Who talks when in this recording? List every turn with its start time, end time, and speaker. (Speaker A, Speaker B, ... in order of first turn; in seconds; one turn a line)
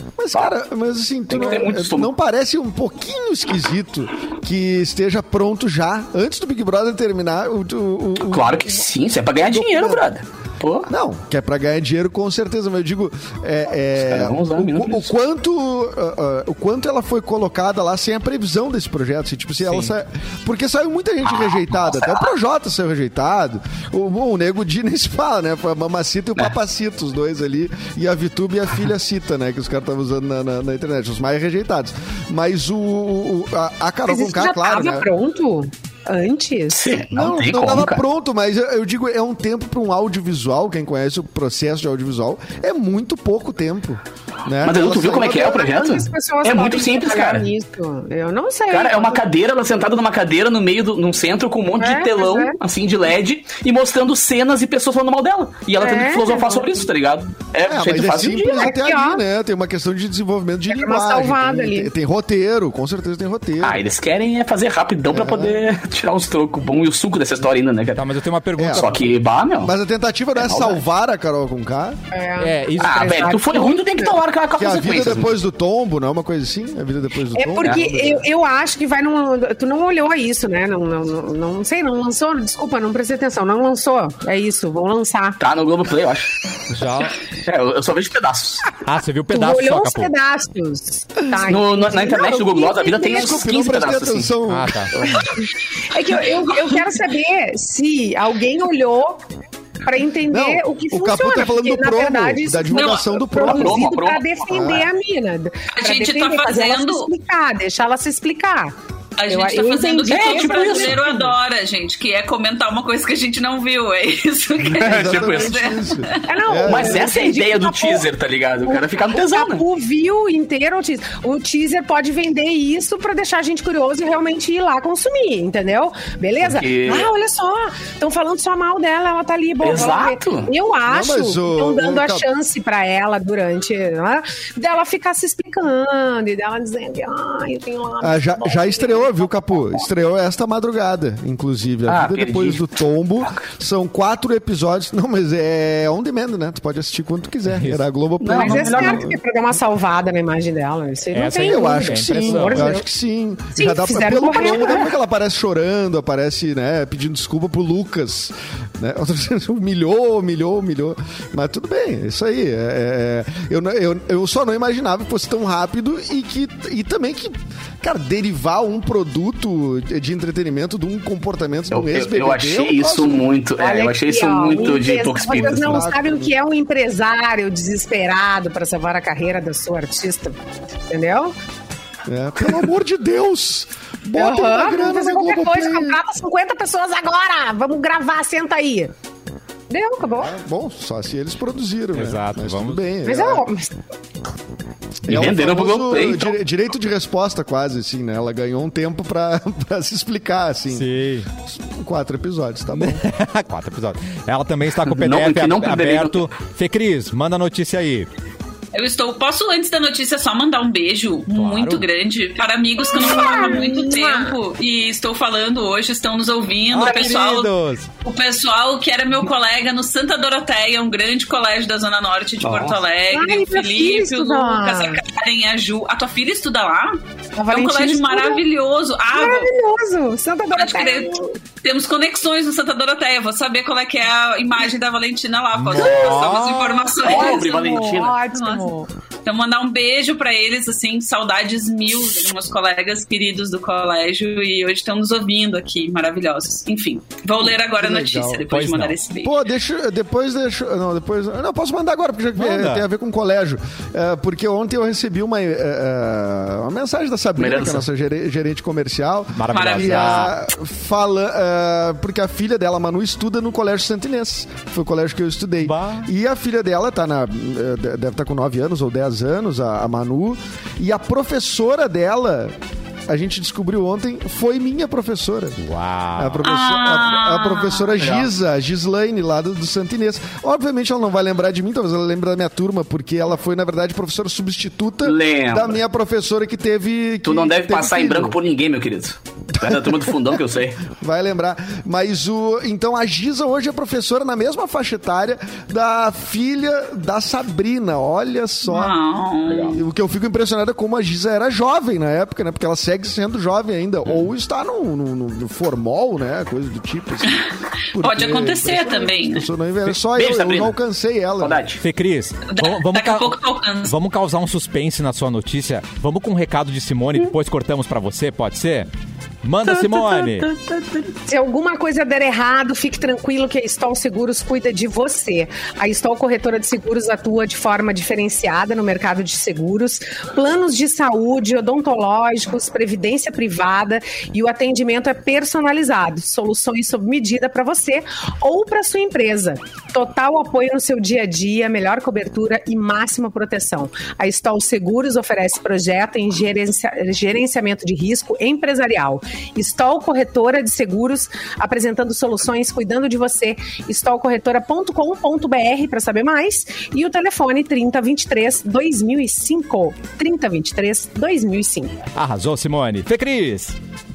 Speaker A: 0.2-8.8
Speaker B: 1.3-2.1
Speaker B: 8.2-10.9
Speaker A: 9.5-10.1
Speaker A: 10.9-35.1
Speaker B: 13.9-15.1
Speaker C: 19.6-19.9
Speaker B: 21.3-22.3
Speaker D: 34.1-36.9
Speaker B: 36.7-38.0
Speaker A: 37.1-45.6
Speaker B: 44.6-47.5
Speaker D: 45.3-49.2
Speaker B: 48.7-58.7
Speaker D: 51.8-52.6
Speaker D: 55.8-56.8
Speaker A: 57.7-63.8
Speaker D: 58.6-59.2
Speaker D: 60.7-61.9
Speaker B: 63.6-68.1
Speaker A: 65.1-65.6
Speaker C: 68.0-69.0
Speaker A: 68.6-68.9
Speaker B: 68.7-69.7
Speaker A: 69.6-72.0
Speaker B: 70.4-70.8
Speaker D: 72.1-74.2
Speaker C: 72.4-73.2
Speaker B: 72.8-75.3
Speaker A: 74.6-78.2
Speaker D: 77.3-85.4
Speaker B: 85.4-86.4
Speaker C: 86.7-87.2
Speaker B: 87.2-88.7
Speaker C: 88.8-90.1
Speaker D: 89.3-93.5
Speaker B: 91.5-94.3
Speaker A: 93.0-95.1
Speaker C: 94.5-94.9
Speaker B: 95.0-95.2
Speaker D: 95.9-99.2
Speaker D: 99.8-108.7
Speaker A: 100.3-103.9
Speaker E: 102.7-103.1
Speaker B: 103.4-104.8
Speaker A: 104.5-104.9
Speaker E: 105.7-107.1
Speaker E: 109.2-116.3
Speaker D: 109.3-111.3
Speaker B: 110.1-111.0
Speaker B: 114.7-115.6
Speaker A: 114.8-117.1
Speaker D: 116.2-118.1
Speaker B: 116.7-119.6
Speaker D: 118.6-139.8
Speaker B: 126.4-127.1
Speaker B: 129.6-130.5
Speaker A: 130.9-132.3
Speaker A: 138.0-149.2
Speaker B: 141.9-142.7
Speaker C: 147.5-147.8
Speaker B: 148.2-149.1
Speaker D: 148.3-152.9
Speaker C: 151.1-152.8
Speaker A: 151.3-173.3
Speaker D: 153.6-154.9
Speaker B: 171.7-175.9
Speaker D: 173.6-180.4
Speaker A: 175.3-176.3
Speaker D: 180.9-181.3
Speaker A: 182.1-186.0
Speaker D: 184.2-188.9
Speaker D: 189.7-190.3
Speaker A: 190.0-193.5
Speaker C: 191.9-192.8
Speaker D: 193.0-193.7
Speaker A: 195.1-203.0
Speaker B: 195.1-196.4
Speaker C: 200.7-201.3
Speaker C: 202.7-208.1
Speaker B: 204.8-206.2
Speaker E: 208.7-217.5
Speaker C: 211.3-211.9
Speaker D: 212.9-214.4
Speaker C: 216.7-217.9
Speaker E: 218.0-227.0
Speaker B: 222.4-222.8
Speaker D: 223.1-225.0
Speaker D: 227.4-228.4
Speaker E: 227.5-229.5
Speaker D: 229.1-231.4
Speaker E: 230.5-238.7
Speaker C: 235.6-236.9
Speaker B: 237.0-238.2
Speaker D: 237.0-238.9
Speaker E: 239.2-249.3
Speaker A: 247.7-248.5
Speaker C: 248.5-248.9
Speaker A: 249.2-272.6
Speaker C: 252.4-252.9
Speaker B: 257.4-257.9
Speaker C: 259.4-260.3
Speaker E: 259.5-260.4
Speaker C: 265.6-266.1
Speaker A: 273.1-275.6
Speaker C: 275.6-276.4
Speaker A: 276.2-288.4
Speaker E: 276.4-277.9
Speaker B: 278.0-278.3
Speaker B: 285.0-285.8
Speaker B: 287.2-290.9
Speaker A: 289.5-299.0
Speaker E: 298.7-299.8
Speaker B: 299.5-299.8
Speaker A: 299.6-311.6
Speaker E: 307.3-309.5
Speaker B: 309.9-310.7
Speaker B: 311.4-311.8
Speaker C: 311.8-318.9
Speaker E: 312.5-313.9
Speaker C: 319.4-320.5
Speaker B: 319.7-321.1
Speaker D: 321.3-362.0
Speaker C: 362.1-363.7